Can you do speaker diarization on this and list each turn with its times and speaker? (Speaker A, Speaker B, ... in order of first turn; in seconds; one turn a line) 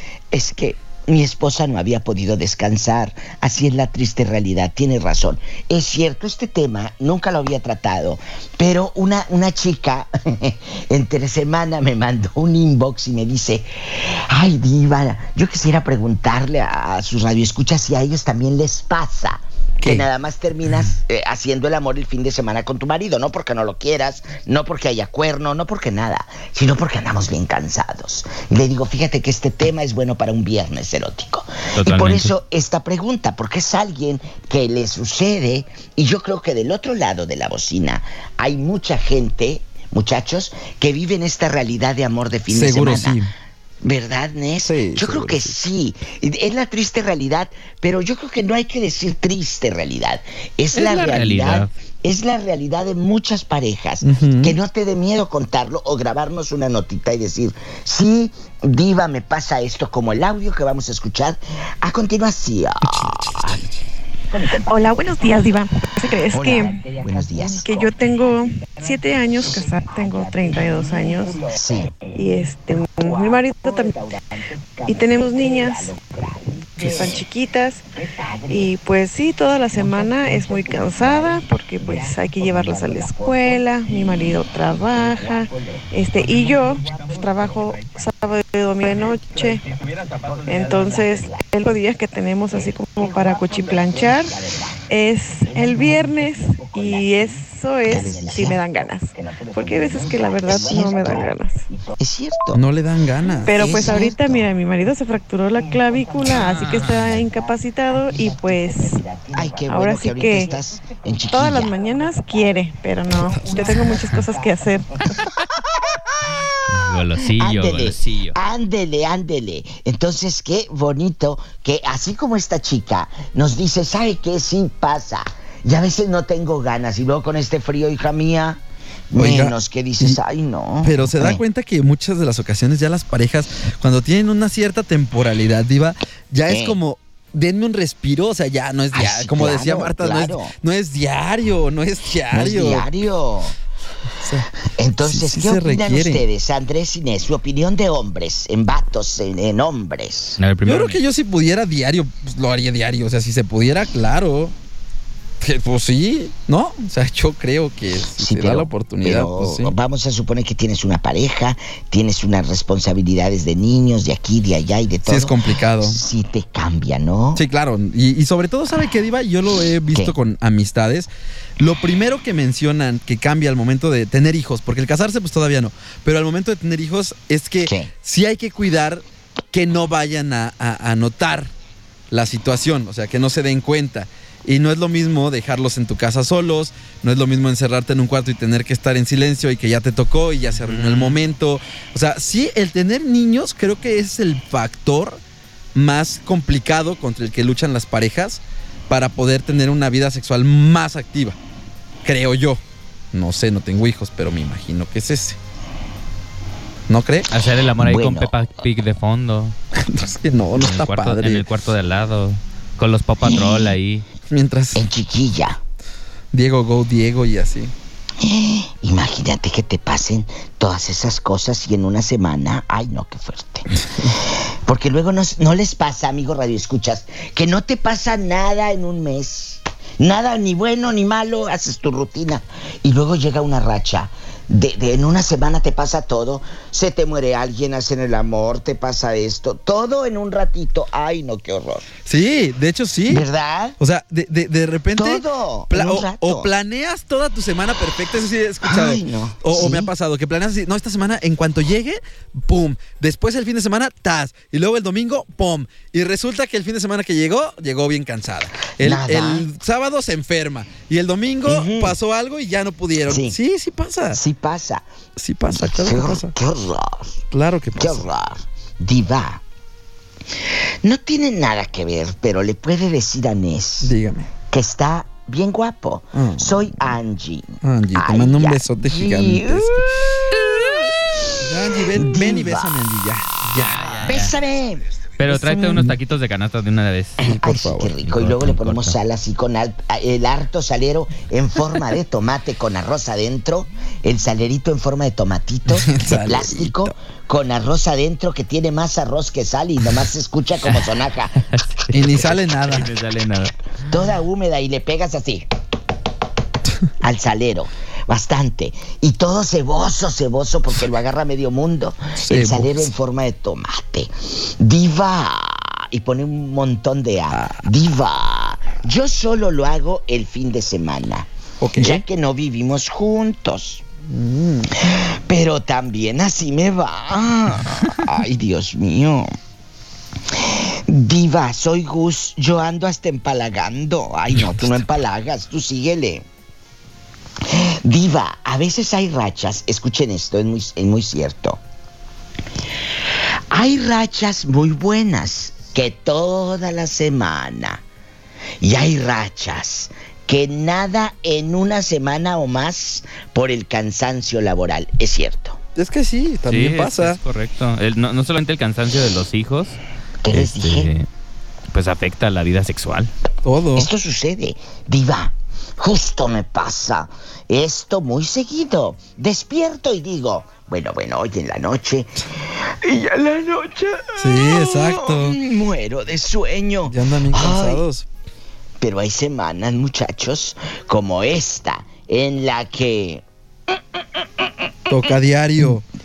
Speaker A: 0.3-43.2
Speaker B: 31.7-32.3
Speaker C: 42.5-43.3
Speaker A: 43.8-63.6
Speaker C: 44.6-45.5
Speaker B: 50.7-51.7
Speaker C: 54.0-54.6
Speaker C: 62.8-63.8
Speaker A: 64.3-64.6
Speaker D: 64.5-66.8
Speaker A: 66.3-67.9
Speaker D: 67.4-71.4
Speaker A: 71.4-72.0
Speaker D: 72.1-74.0
Speaker A: 73.0-77.2
Speaker D: 74.8-75.9
Speaker D: 76.8-77.8
Speaker D: 78.5-89.6
Speaker A: 80.7-83.6
Speaker D: 90.4-94.4
Speaker A: 94.0-94.8
Speaker D: 94.9-101.6
Speaker A: 97.8-98.7
Speaker A: 99.7-102.6
Speaker C: 102.5-103.7
Speaker A: 103.4-104.5
Speaker D: 103.4-109.0
Speaker B: 106.2-107.0
Speaker A: 106.3-107.3
Speaker A: 109.2-111.7
Speaker D: 109.7-110.5
Speaker D: 111.3-114.9
Speaker A: 113.2-114.2
Speaker C: 113.3-113.9
Speaker A: 115.2-116.5
Speaker B: 116.7-118.3
Speaker A: 117.1-131.4
Speaker C: 129.2-130.2
Speaker C: 130.8-142.9
Speaker A: 136.5-136.8
Speaker A: 138.9-140.5
Speaker A: 142.3-143.6
Speaker C: 144.2-144.5
Speaker A: 144.8-150.4
Speaker C: 145.0-146.2
Speaker B: 150.4-151.0
Speaker C: 150.6-154.5
Speaker C: 155.4-159.7
Speaker A: 158.2-167.4
Speaker C: 165.0-166.0
Speaker C: 167.3-181.5
Speaker A: 169.9-170.2
Speaker A: 177.6-177.9
Speaker C: 182.1-195.2
Speaker B: 190.6-191.2
Speaker C: 195.7-201.4
Speaker C: 202.0-202.6
Speaker C: 203.1-205.4
Speaker C: 206.9-207.3
Speaker B: 207.3-209.5
Speaker A: 207.8-208.3
Speaker C: 209.8-211.4
Speaker B: 210.6-214.0
Speaker A: 213.2-213.7
Speaker C: 214.3-214.8
Speaker A: 214.7-215.6
Speaker C: 216.3-217.7
Speaker A: 218.2-241.9
Speaker C: 242.1-243.2
Speaker A: 243.1-243.8
Speaker C: 243.8-264.2
Speaker A: 244.9-246.5
Speaker A: 248.6-249.9
Speaker A: 258.8-259.4
Speaker A: 261.4-261.9
Speaker A: 263.1-263.4
Speaker A: 264.1-264.9
Speaker C: 265.1-266.3
Speaker A: 265.5-267.2
Speaker C: 267.3-268.1
Speaker A: 267.8-269.4
Speaker A: 270.8-273.9
Speaker C: 273.8-274.3
Speaker A: 274.5-281.3
Speaker C: 276.1-276.7
Speaker C: 277.6-279.9
Speaker C: 281.4-284.0
Speaker A: 281.9-282.8
Speaker B: 283.5-284.3
Speaker A: 284.0-285.8
Speaker B: 285.2-287.2
Speaker A: 287.2-301.4
Speaker C: 287.2-287.9
Speaker B: 288.1-288.9
Speaker C: 295.7-296.9
Speaker B: 301.5-303.5
Speaker C: 301.9-302.9
Speaker A: 303.8-305.5
Speaker A: 307.0-323.8
Speaker C: 312.2-312.9
Speaker C: 317.3-317.6
Speaker C: 321.6-322.0
Speaker C: 324.1-324.7
Speaker A: 324.8-329.3
Speaker A: 330.3-336.2
Speaker A: 337.4-341.6
Speaker A: 343.5-347.8
Speaker A: 348.6-355.6
Speaker C: 355.8-357.2
Speaker B: 356.5-359.8
Speaker A: 360.2-360.9
Speaker B: 360.3-361.1
Speaker B: 361.7-363.1
Speaker C: 363.4-363.9
Speaker A: 363.8-377.8
Speaker C: 374.2-375.4
Speaker C: 376.9-378.1
Speaker A: 378.8-383.2
Speaker A: 384.4-385.0
Speaker C: 384.9-385.8